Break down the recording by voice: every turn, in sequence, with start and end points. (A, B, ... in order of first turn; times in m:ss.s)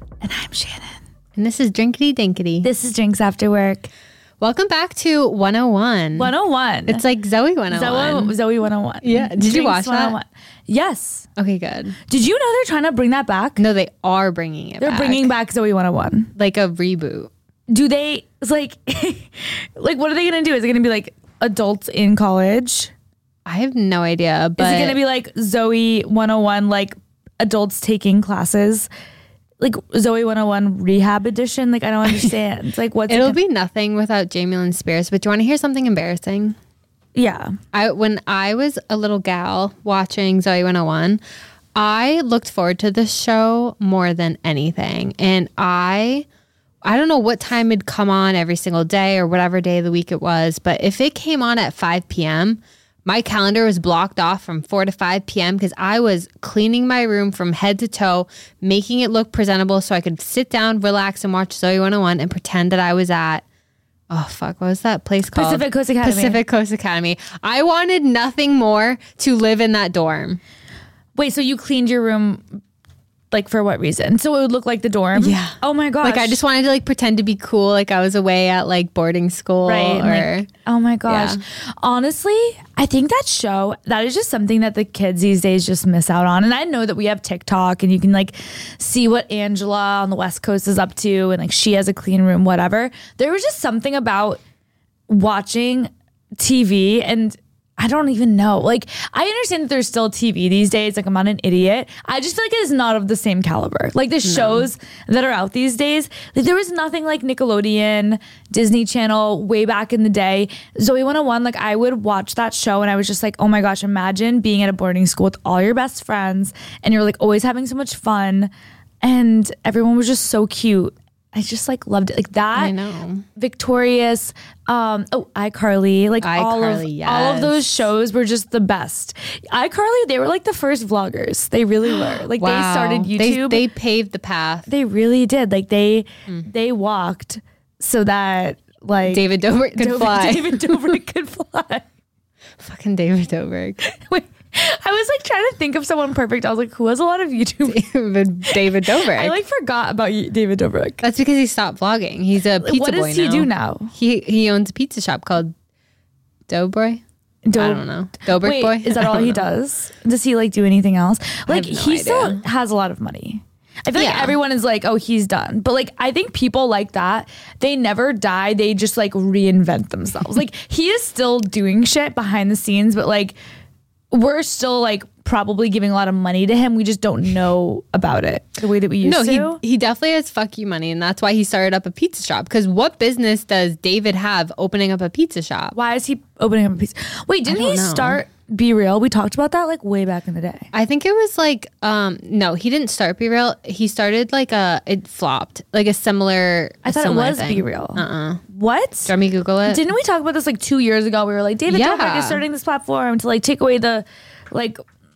0:00.2-0:01.0 A
0:01.4-0:02.7 B
0:02.6-0:03.9 A
0:04.4-0:06.3 B
0:06.2-0:07.0 A
0:06.9-0:08.4 B
0:07.7-0:11.3 A
0:09.0-0:10.2 B
0:11.4-0:12.0 B
0:12.1-0:13.6 A
0:13.6-0:15.3 B
0:14.8-0:16.3 A
0:16.4-0:17.3 B
0:17.7-0:22.9 A
0:23.5-0:25.0 B
0:24.6-0:28.9 A
0:29.6-0:33.4 A
0:33.1-0:36.6 B
0:37.2-0:37.6 A
0:37.7-0:41.2 B
0:41.8-0:46.3 B
0:46.8-1:03.4 B
1:04.1-1:10.4 B
1:05.3-1:06.4 A
1:11.2-1:12.6 A
1:13.3-1:16.4 A
1:15.2-1:20.5 B
1:19.6-1:34.4 A
1:21.1-1:21.4 B
1:35.1-1:58.5 A
1:44.2-1:44.7 B
1:59.0-2:02.8 A
2:02.6-2:03.2 B
2:03.4-2:13.7 A
2:06.2-2:07.9 B
2:12.0-2:14.7 B
2:14.7-2:21.9 A
2:19.1-2:21.0 B
2:22.6-2:23.8 B
2:23.8-2:27.8 A
2:27.7-2:29.4 B
2:28.5-2:31.0 A
2:31.0-2:35.5 B
2:32.6-2:33.9 A
2:36.5-2:37.0 B
2:37.5-2:53.4 A
2:37.6-2:39.4 B
2:41.5-2:42.4 B
2:44.0-2:44.4 B
2:54.1-2:59.6 A
2:59.0-3:05.8 B
3:05.7-3:10.7 A
3:07.5-3:08.2 B
3:10.7-3:18.4 B
3:16.8-3:19.1 A
3:19.1-3:19.9 B
3:19.6-3:24.8 A
3:21.7-3:22.4 B